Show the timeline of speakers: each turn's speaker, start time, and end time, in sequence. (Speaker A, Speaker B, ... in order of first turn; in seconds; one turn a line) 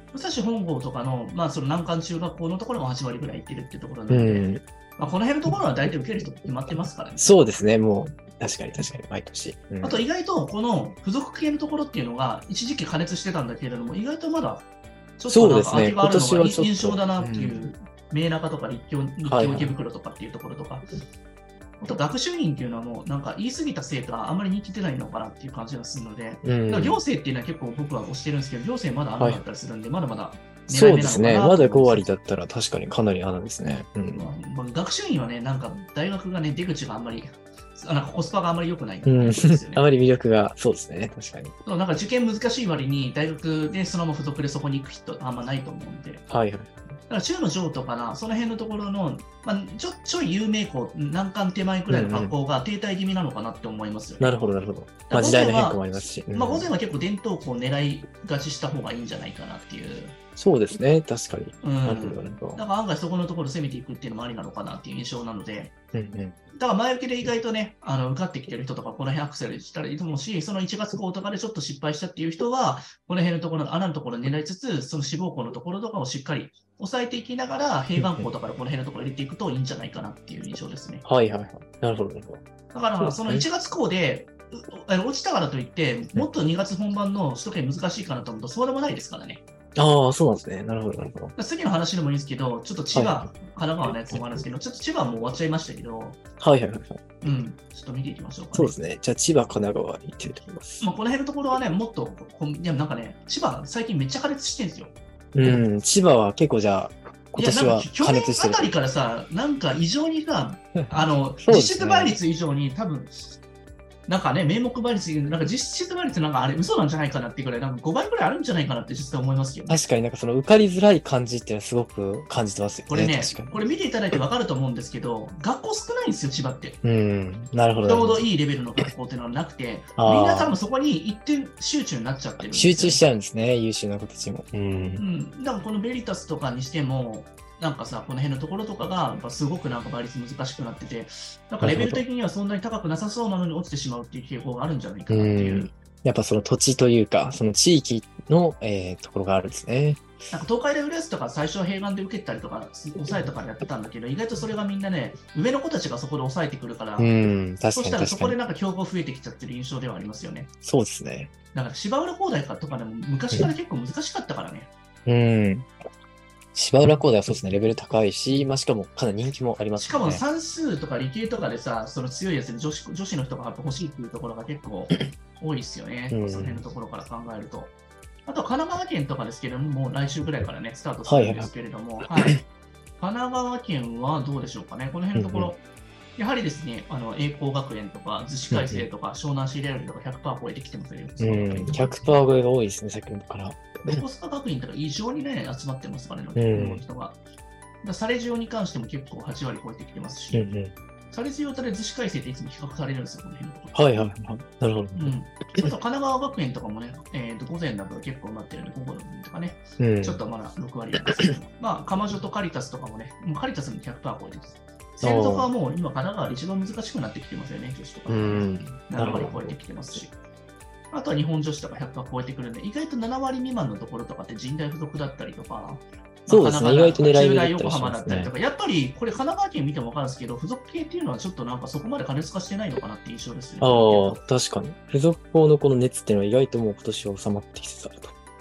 Speaker A: 0.1-7.3
Speaker B: 4.1-4.6
Speaker B: 7.2-10.0
Speaker A: 9.8-14.7
Speaker A: 15.2-20.9
Speaker B: 15.3-17.7
Speaker B: 19.2-19.8
Speaker A: 21.8-32.1
Speaker B: 26.4-27.0
Speaker B: 30.7-34.3
Speaker A: 34.1-39.8
Speaker B: 39.0-41.5
Speaker A: 41.6-46.2
Speaker B: 46.3-46.7
Speaker A: 47.1-54.3
Speaker B: 51.9-52.3
Speaker B: 54.2-56.7
Speaker A: 55.1-60.1
Speaker B: 60.4-62.6
Speaker A: 61.6-65.7
Speaker B: 65.9-66.4
Speaker A: 66.6-81.0
Speaker B: 78.0-78.3
Speaker B: 81.0-82.4
Speaker A: 82.7-89.4
Speaker B: 83.0-83.4
Speaker B: 89.8-91.3
Speaker A: 91.3-96.2
Speaker B: 92.9-93.3
Speaker B: 96.4-97.3
Speaker A: 97.2-98.8
Speaker B: 98.5-100.9
Speaker A: 100.8-105.6
Speaker B: 105.3-108.7
Speaker A: 107.3-113.2
Speaker B: 110.8-112.2
Speaker A: 114.1-119.8
Speaker B: 119.7-123.6
Speaker A: 122.9-126.8
Speaker B: 126.8-128.3
Speaker A: 127.8-133.0
Speaker B: 129.9-130.6
Speaker B: 132.5-135.0
Speaker A: 135.0-145.7
Speaker B: 141.6-142.0
Speaker B: 145.1-150.0
Speaker A: 150.3-157.1
Speaker B: 157.0-158.4
Speaker A: 157.7-160.5
Speaker B: 160.6-161.3
Speaker A: 161.5-164.7
Speaker B: 165.1-165.7
Speaker B: 166.5-170.2
Speaker A: 169.7-177.7
Speaker B: 176.1-176.6
Speaker A: 178.3-182.4
Speaker B: 181.0-181.5
Speaker A: 183.0-185.6
Speaker B: 185.1-185.5
Speaker A: 186.2-192.2
Speaker B: 188.5-188.9
Speaker B: 191.2-194.0
Speaker A: 193.8-197.2
Speaker B: 196.3-196.8
Speaker A: 197.8-200.5
Speaker B: 200.3-200.7
Speaker A: 201.1-203.8
Speaker B: 203.7-205.7
Speaker A: 204.9-220.1
Speaker B: 209.8-210.2
Speaker B: 215.0-215.5
Speaker B: 218.1-220.0
Speaker A: 220.9-234.2
Speaker B: 226.3-228.3
Speaker B: 233.6-238.1